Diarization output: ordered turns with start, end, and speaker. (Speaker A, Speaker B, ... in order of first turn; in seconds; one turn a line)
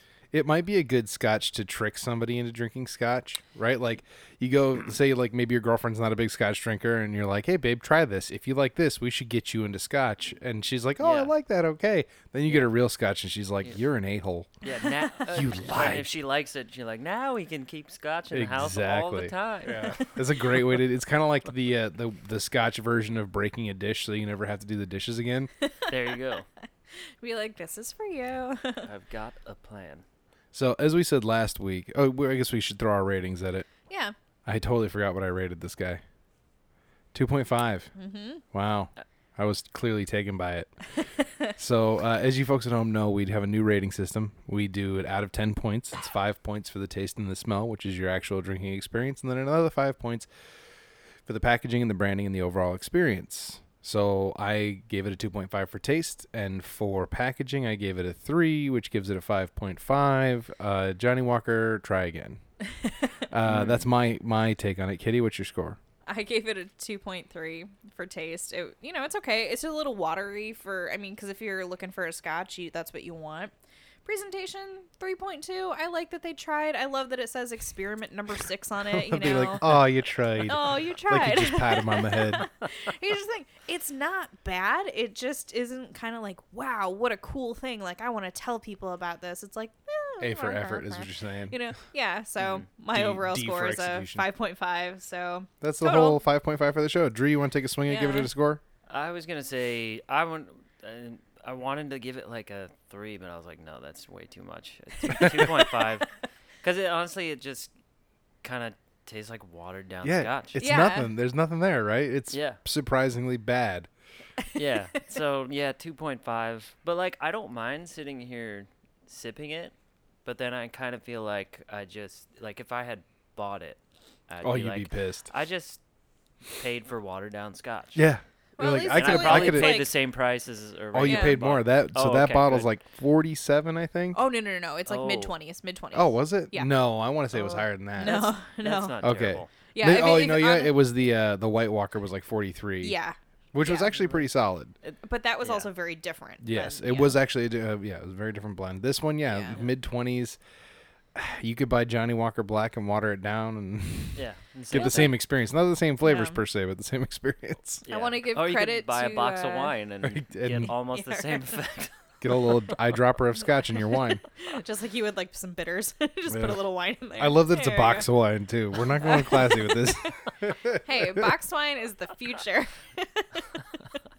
Speaker A: 0.3-14.5
Speaker B: 11.0-11.3
Speaker B: 12.5-12.7
Speaker B: 14.6-20.2
Speaker A: 15.3-16.1
Speaker A: 18.3-25.5
Speaker C: 25.6-25.9
Speaker B: 25.9-26.5
Speaker C: 27.2-28.9
Speaker B: 28.9-30.0
Speaker A: 30.5-33.7
Speaker C: 33.9-34.1
Speaker A: 34.5-36.0
Speaker A: 37.1-37.9
Speaker C: 38.0-38.4
Speaker A: 38.5-40.7
Speaker A: 41.6-50.3
Speaker A: 51.3-62.4
Speaker C: 62.6-63.1
Speaker A: 63.3-65.8
Speaker B: 63.5-63.9
Speaker C: 66.1-73.5
Speaker C: 74.0-79.8
Speaker A: 78.9-82.5
Speaker C: 80.4-96.2
Speaker A: 90.2-91.6
Speaker B: 92.4-92.7
Speaker A: 92.9-94.2
Speaker A: 95.6-98.6
Speaker C: 97.9-98.3
Speaker B: 98.9-107.7
Speaker C: 105.1-105.9
Speaker B: 108.4-110.6
Speaker A: 110.0-113.9
Speaker C: 110.6-111.1
Speaker B: 112.3-112.6
Speaker C: 114.4-115.2
Speaker B: 114.5-119.7
Speaker B: 120.2-125.8
Speaker A: 124.4-125.3
Speaker B: 126.5-128.1
Speaker A: 128.0-129.8
Speaker C: 128.6-129.9
Speaker B: 128.9-132.7
Speaker A: 130.9-134.2
Speaker C: 131.0-131.4
Speaker C: 134.1-136.7
Speaker B: 134.9-135.3
Speaker A: 135.9-138.3
Speaker C: 137.3-139.0
Speaker B: 138.1-139.5
Speaker A: 139.0-143.0
Speaker C: 139.7-140.8
Speaker C: 142.8-144.2
Speaker A: 143.5-144.8
Speaker B: 144.8-145.7
Speaker C: 145.0-147.2
Speaker A: 146.4-150.4
Speaker C: 149.3-149.6
Speaker A: 151.2-157.8
Speaker B: 154.2-155.2
Speaker C: 154.7-155.1
Speaker C: 156.0-156.4
Speaker B: 157.8-162.1
Speaker C: 157.9-159.7
Speaker A: 160.0-160.7
Speaker C: 160.7-161.6
Speaker A: 162.2-164.2
Speaker C: 164.0-168.1
Speaker A: 166.3-166.6
Speaker A: 167.2-171.3
Speaker C: 168.8-174.0